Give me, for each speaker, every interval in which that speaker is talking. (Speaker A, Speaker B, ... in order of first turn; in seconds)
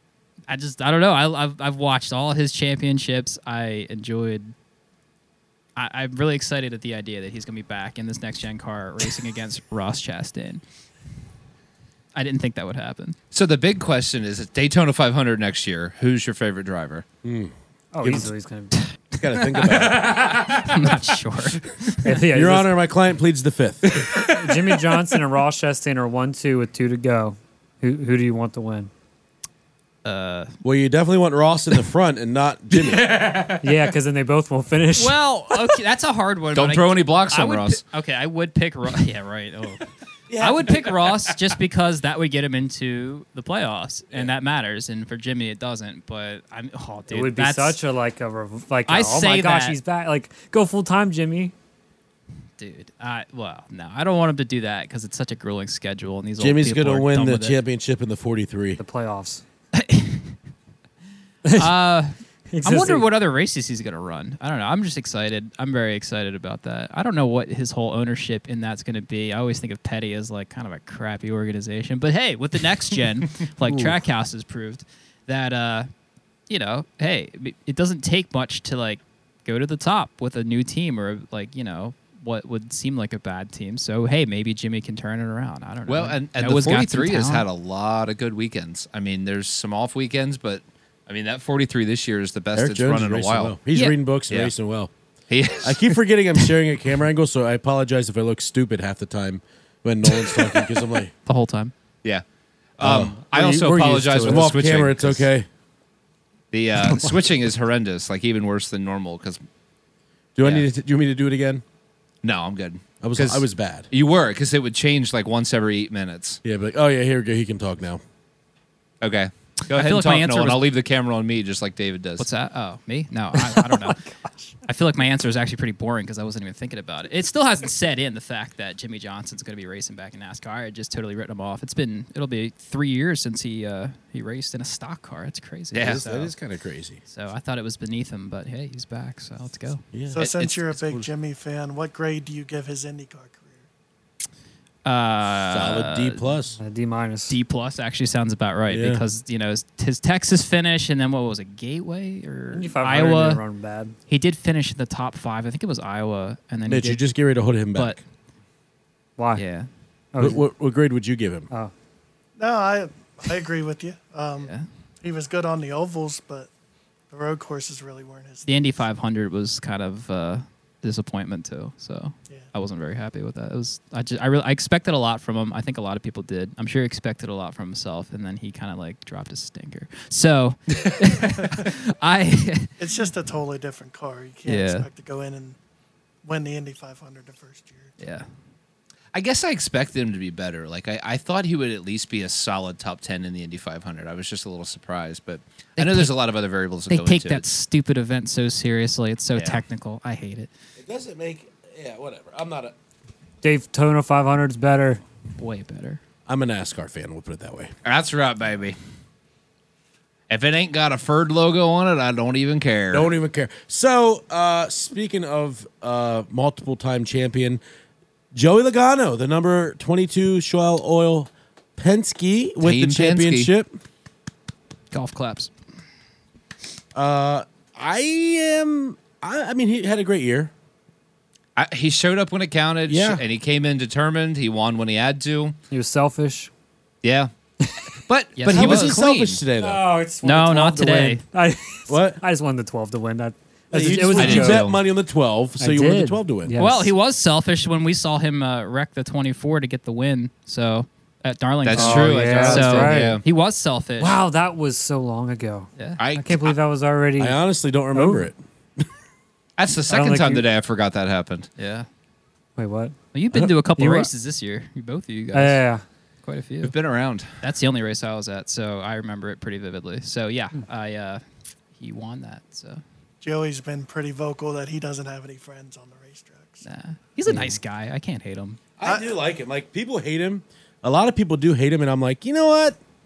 Speaker A: 0.5-4.5, 5.8-10.6, 12.2-13.2, 19.4-22.1, 30.0-30.5, 35.0-39.8, 40.4-47.8, 48.9-49.8, 52.6-57.6, 59.7-60.4, 61.5-75.9, 76.5-87.5, 101.3-101.7, 119.7-120.6, 122.2-124.0, 124.7-136.3, 137.1-139.8, 144.8-146.3, 147.3-153.4, 154.1-157.0, 157.8-158.0, 159.4-159.7, 164.4-164.7, 168.5-182.7, 184.5-184.9, 188.0-188.3, 195.8-196.1, 196.9-200.5, 205.4-206.0, 224.9-225.5, 238.4-239.0, 240.2-241.2, 246.6-254.1, 261.6-261.9, 263.1-265.6, 266.2-266.7, 267.4-271.2, 271.8-272.8, 276.6-278.6
Speaker B: 13.3-17.1, 19.8-20.9, 23.9-24.8, 32.8-33.6, 36.5-37.8, 85.9-93.6, 95.3-96.0, 102.8-105.3, 106.5-109.4, 110.4-110.7, 112.2-116.4, 119.0-122.3, 135.7-136.0, 140.2-141.1, 189.1-197.5, 199.3-199.6, 207.8-208.8, 210.3-213.1, 222.6-223.5, 231.6-235.6, 237.0-237.3, 238.0-239.4, 244.2-244.8, 251.6-253.2, 256.0-256.6, 259.6-261.5, 266.6-267.4
Speaker C: 17.2-18.3, 19.1-20.2, 22.3-24.0, 30.6-33.1, 40.3-40.9, 56.4-58.8, 92.6-94.9, 95.6-101.1, 102.8-103.2, 104.2-105.5, 110.4-111.6, 113.0-113.9, 116.4-118.0, 135.8-137.0, 139.9-140.3, 145.5-146.6, 148.7-149.0, 156.7-158.0, 160.2-161.5, 200.8-202.7, 206.3-207.7, 212.9-217.6, 218.3-223.8, 226.9-230.5, 232.9-233.2, 238.5-239.8, 241.9-242.2, 243.7-246.5, 257.2-258.9, 278.8-282.8
Speaker D: 17.9-18.8, 22.1-22.7, 24.2-28.9, 33.6-35.2, 47.1-51.5, 58.8-59.4, 62.5-63.1, 103.3-104.5, 123.5-124.1, 146.6-147.4, 152.5-153.9, 159.2-159.4, 160.1-160.4, 203.4-205.0, 235.7-236.5, 239.6-244.7, 245.6-246.9, 251.8-253.2, 254.0-257.4, 257.9-258.3, 259.9-260.4, 262.6-263.0, 263.7-264.1, 265.3-265.8, 277.3-277.6
Speaker E: 140.1-143.6, 162.4-166.5, 167.1-168.8, 182.8-185.6, 186.2-187.9, 273.2-276.7, 278.8-279.1